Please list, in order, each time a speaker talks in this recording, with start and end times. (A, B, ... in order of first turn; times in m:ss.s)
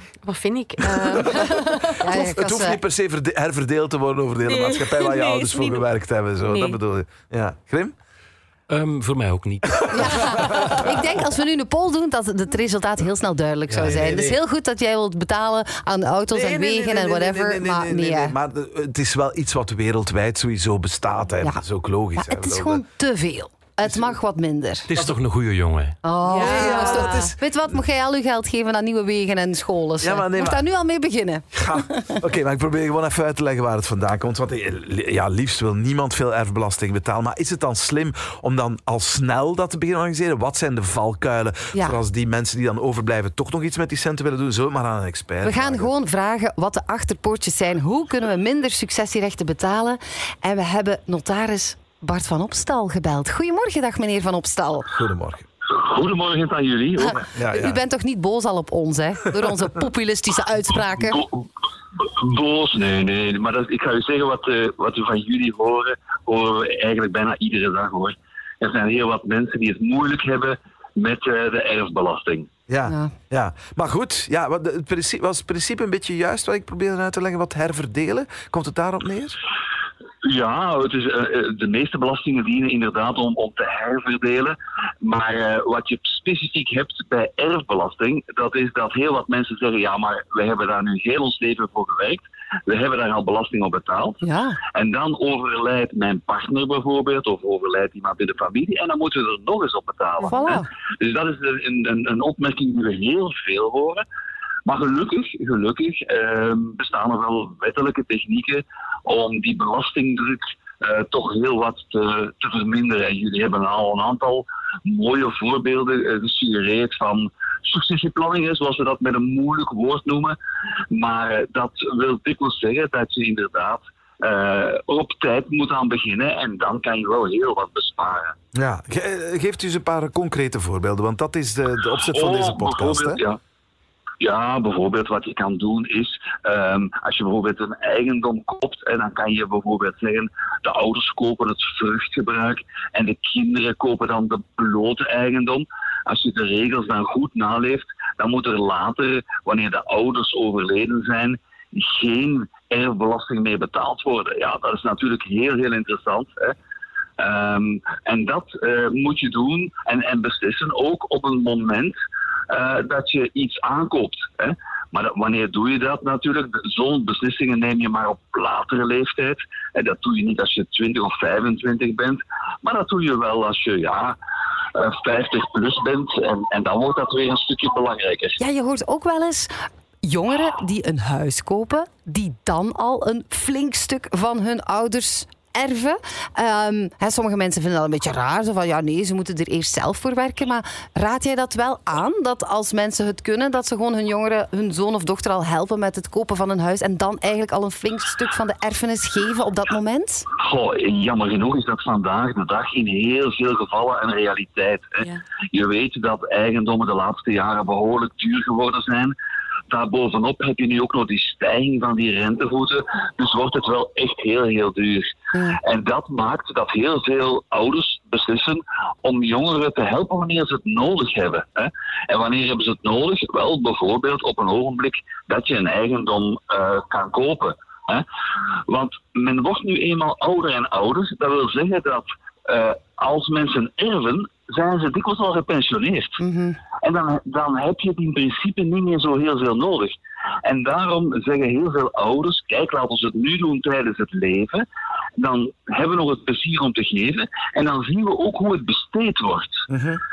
0:00.2-0:02.0 A
0:00.8-0:07.9 B
0:02.0-0:02.8 C
0:04.5-0:05.8 A
0:06.4-0:06.8 A
0:08.7-0:10.7 D
0:09.9-0:18.4 C
0:10.5-0:10.9 B
0:13.7-0:14.0 D
0:13.8-0:14.4 B
0:16.3-0:22.8 B
0:22.2-0:24.9 C
0:23.8-0:24.2 B
0:24.9-0:26.0 D
0:26.0-0:32.2 C
0:26.3-0:27.3 A
0:26.3-0:27.4 B
0:30.0-0:30.7 B
0:31.5-0:45.9 B
0:41.7-0:42.0 C
0:45.4-0:54.9 C
0:54.9-0:55.5 B
0:55.7-0:57.2 E
0:57.0-1:01.2 C
0:57.1-0:57.8 B
1:01.0-1:01.5 E
1:02.0-1:12.5 E
1:12.7-1:19.4 B
1:12.9-1:13.1 C
1:20.2-1:34.2 E
1:34.2-1:34.6 C
1:34.7-1:44.0 E
1:40.2-1:40.7 C
1:44.7-2:00.4 E
2:00.9-2:08.4 E
2:08.6-2:13.2 B
2:12.1-2:13.4 E
2:14.2-2:36.6 E
2:37.2-2:42.0 E
2:42.5-2:54.2 E
2:54.8-2:58.4 E
2:58.4-2:59.5 C
3:00.0-3:20.3 C
3:20.4-3:29.1 E
3:29.7-3:48.0 E
3:35.3-3:35.6 C
3:48.7-3:56.2 E
3:56.2-3:56.6 C
3:56.8-4:04.6 E
4:05.2-4:09.6 E
4:09.7-4:10.0 B